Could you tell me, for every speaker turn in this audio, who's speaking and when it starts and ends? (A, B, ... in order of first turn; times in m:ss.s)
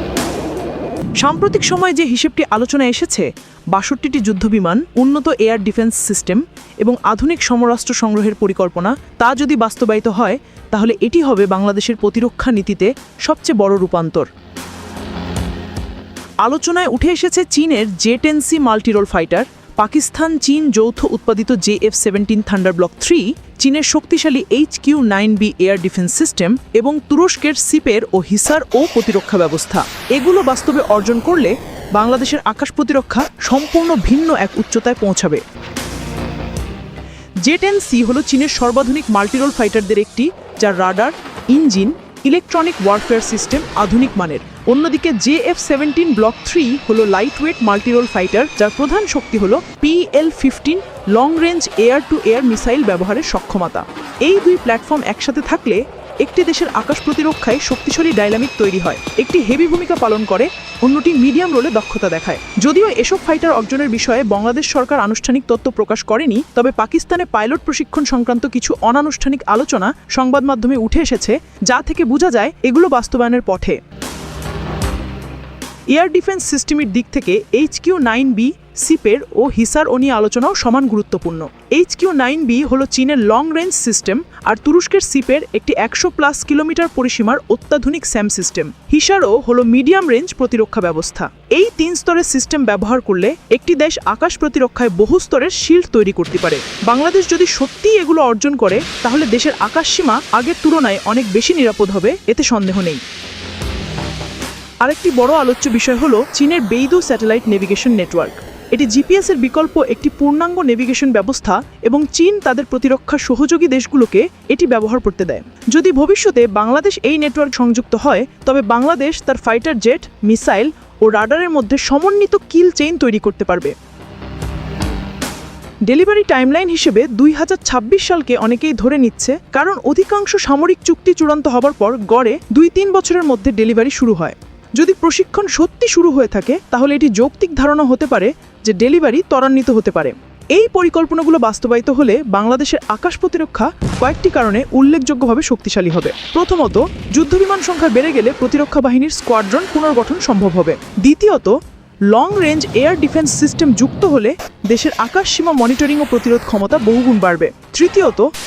0:01.2-0:14.3 A
0:16.4-0:35.4 A
0:37.4-1:13.8 A
1:15.9-1:43.0 A
1:44.8-2:03.8 A
2:05.8-2:31.6 A
2:32.1-2:38.3 A